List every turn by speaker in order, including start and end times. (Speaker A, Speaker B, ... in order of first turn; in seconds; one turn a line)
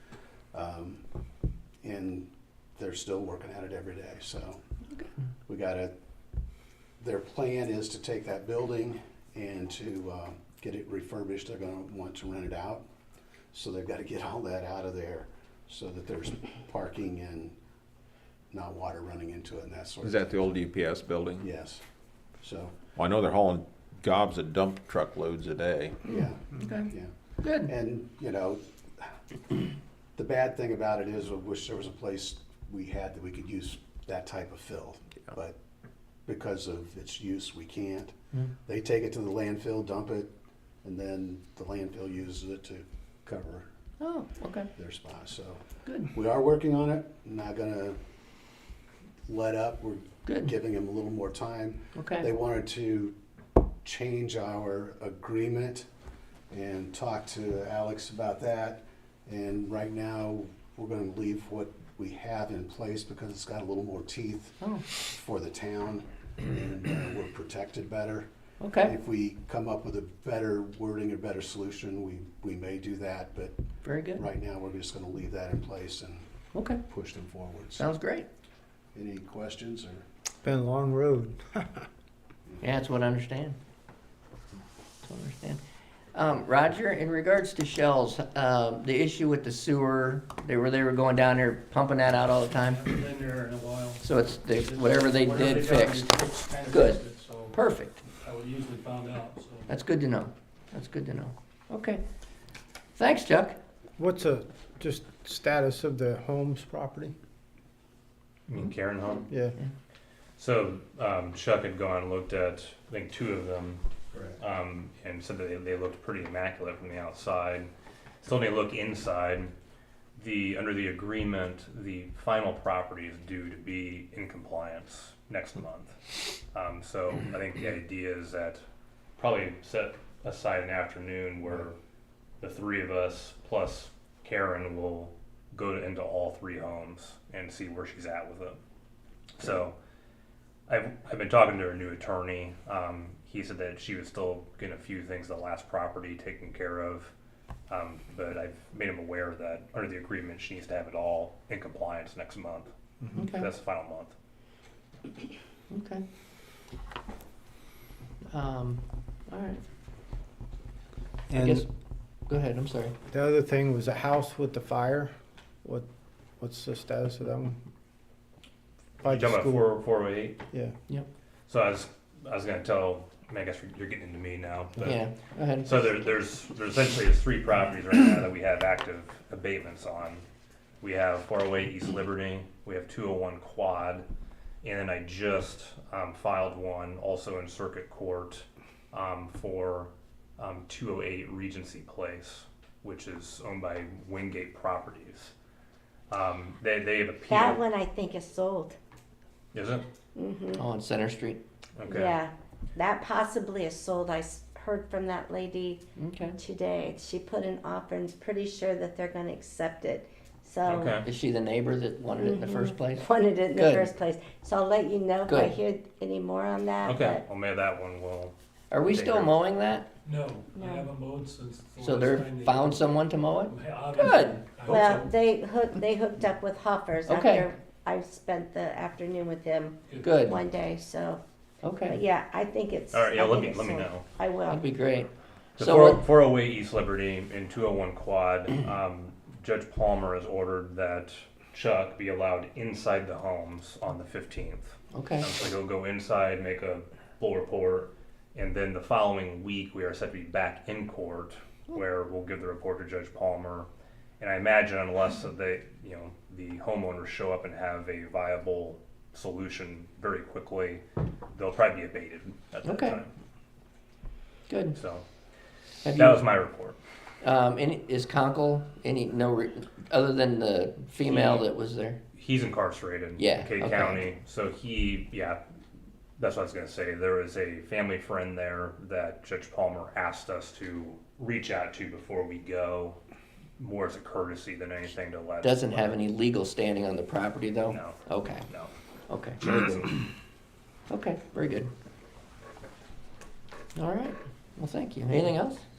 Speaker A: 0.5-1.0
Speaker A: 1.8-4.6
Speaker A: 5.5-5.9
Speaker A: 7.0-12.8
Speaker A: 13.5-17.6
Speaker A: 18.5-20.4
Speaker B: 20.0-21.5
Speaker A: 21.4-21.8
Speaker A: 22.4-22.8
Speaker B: 23.0-26.0
Speaker A: 26.1-27.1
Speaker C: 26.1-26.9
Speaker C: 27.4-27.7
Speaker A: 27.6-28.6
Speaker A: 30.2-35.6
Speaker A: 36.3-38.1
Speaker A: 38.6-43.7
Speaker C: 44.0-44.7
Speaker A: 44.8-48.0
Speaker A: 49.3-53.1
Speaker C: 50.3-50.5
Speaker C: 52.0-52.3
Speaker A: 53.8-55.9
Speaker A: 56.5-68.3
Speaker C: 68.6-68.9
Speaker A: 68.8-73.5
Speaker C: 73.8-74.2
Speaker A: 74.2-76.3
Speaker C: 76.5-76.8
Speaker A: 76.9-77.9
Speaker C: 77.8-78.3
Speaker A: 79.0-80.0
Speaker D: 80.4-81.8
Speaker C: 82.6-83.6
Speaker C: 85.0-85.6
Speaker C: 86.1-92.8
Speaker E: 92.8-94.0
Speaker C: 94.0-96.1
Speaker E: 94.5-97.6
Speaker C: 96.7-97.0
Speaker C: 97.5-98.0
Speaker E: 98.2-99.7
Speaker C: 99.7-102.0
Speaker C: 103.0-103.6
Speaker D: 104.0-107.2
Speaker F: 108.5-109.3
Speaker D: 109.3-109.5
Speaker F: 110.4-113.8
Speaker F: 114.4-117.7
Speaker F: 118.2-119.5
Speaker F: 120.2-128.6
Speaker F: 129.2-131.8
Speaker F: 132.4-138.6
Speaker F: 139.4-139.8
Speaker F: 140.7-147.1
Speaker F: 147.7-152.7
Speaker D: 153.0-153.3
Speaker C: 153.2-153.5
Speaker F: 153.3-154.1
Speaker C: 155.7-156.0
Speaker C: 158.3-159.6
Speaker D: 161.3-161.7
Speaker C: 161.4-161.7
Speaker C: 162.3-162.9
Speaker D: 163.1-165.1
Speaker D: 166.4-167.6
Speaker F: 169.0-170.4
Speaker D: 169.0-169.7
Speaker F: 171.5-175.0
Speaker C: 174.8-175.8
Speaker F: 175.7-180.2
Speaker F: 180.8-184.1
Speaker F: 184.6-195.3
Speaker F: 196.1-197.6
Speaker G: 197.3-198.8
Speaker F: 199.5-199.8
Speaker G: 200.2-200.7
Speaker C: 200.6-201.4
Speaker F: 201.8-202.2
Speaker G: 201.9-205.8
Speaker C: 206.0-206.4
Speaker G: 206.4-211.0
Speaker F: 210.7-211.1
Speaker C: 210.9-213.9
Speaker G: 212.2-217.2
Speaker C: 215.3-215.6
Speaker F: 216.8-219.4
Speaker C: 218.7-219.9
Speaker E: 220.1-222.6
Speaker G: 220.6-220.9
Speaker C: 221.8-224.4
Speaker E: 223.5-225.1
Speaker G: 224.7-231.2
Speaker C: 227.1-227.5
Speaker C: 230.0-230.4
Speaker C: 231.6-232.0
Speaker G: 231.9-234.6
Speaker F: 232.9-234.1
Speaker C: 234.5-236.0
Speaker F: 235.6-253.7
Speaker C: 244.9-245.3
Speaker F: 254.2-263.1
Speaker C: 262.6-263.0
Speaker C: 264.5-264.8
Speaker F: 264.8-265.0
Speaker C: 265.9-266.3
Speaker F: 265.9-266.8
Speaker C: 267.2-272.0
Speaker F: 271.1-271.5
Speaker F: 272.1-275.4
Speaker C: 273.2-274.0
Speaker F: 276.2-283.0
Speaker F: 283.6-286.0
Speaker C: 285.4-288.4
Speaker F: 287.7-288.7
Speaker C: 289.1-289.9
Speaker F: 289.5-289.8
Speaker C: 290.9-291.7
Speaker C: 293.8-295.6